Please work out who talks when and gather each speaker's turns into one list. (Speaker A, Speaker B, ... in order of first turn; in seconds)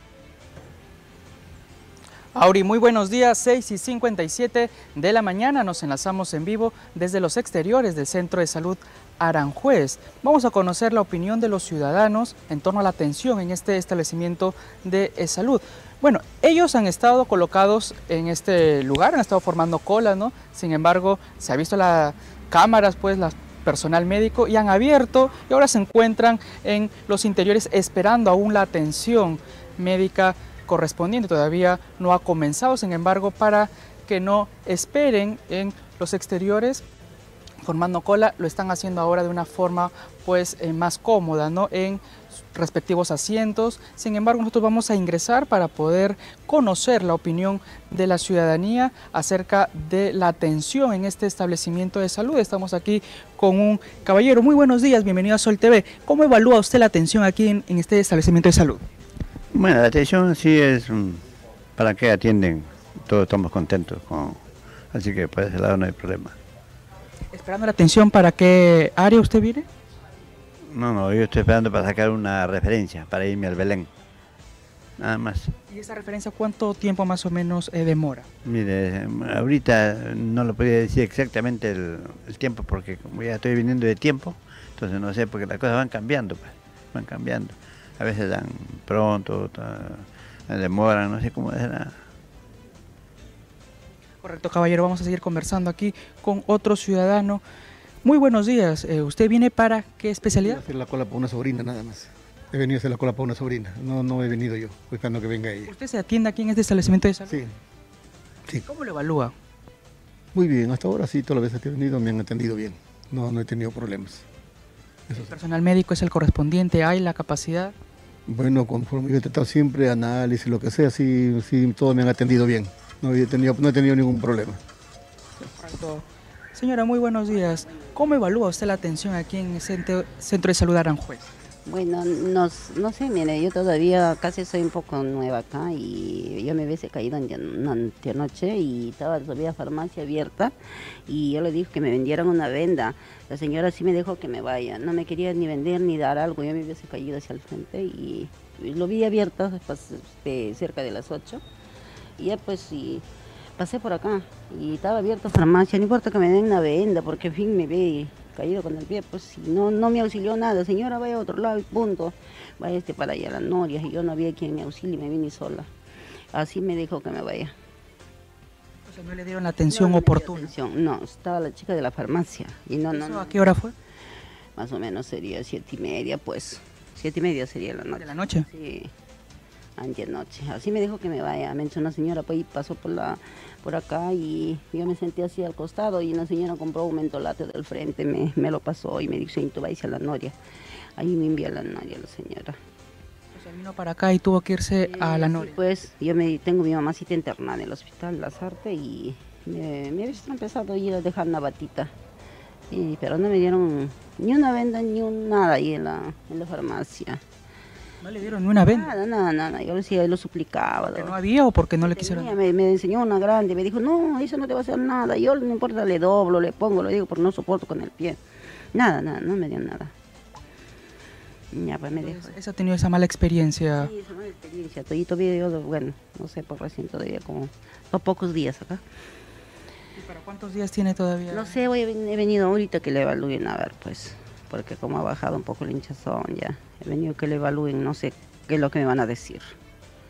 Speaker A: 2.3-36.8, 37.6-58.8, 67.3-69.7, 75.7-78.3, 94.2-97.4, 98.0-100.6, 105.7-107.4, 108.7-109.3, 115.3-117.7, 125.4-131.3, 168.9-170.5, 172.9-173.7, 177.9-178.4, 193.3-195.5, 208.0-208.9, 210.8-212.3, 221.9-223.9, 230.0-231.6
Speaker B: 59.5-61.2, 61.8-66.3, 70.7-73.9, 75.0-75.5, 78.4-91.9
Speaker C: 100.2-105.7, 110.3-114.2, 115.1-115.3, 118.3-124.6
Speaker D: 131.6-140.5, 141.1-151.4, 152.2-153.0, 153.6-165.7, 166.3-167.5, 169.7-173.4, 174.6-178.9, 179.8-190.3, 190.9-192.6, 194.8-201.9, 202.7-207.2, 208.6-211.2, 211.8-218.2, 218.7-219.9, 221.5-222.3, 223.8-228.8, 231.3-239.6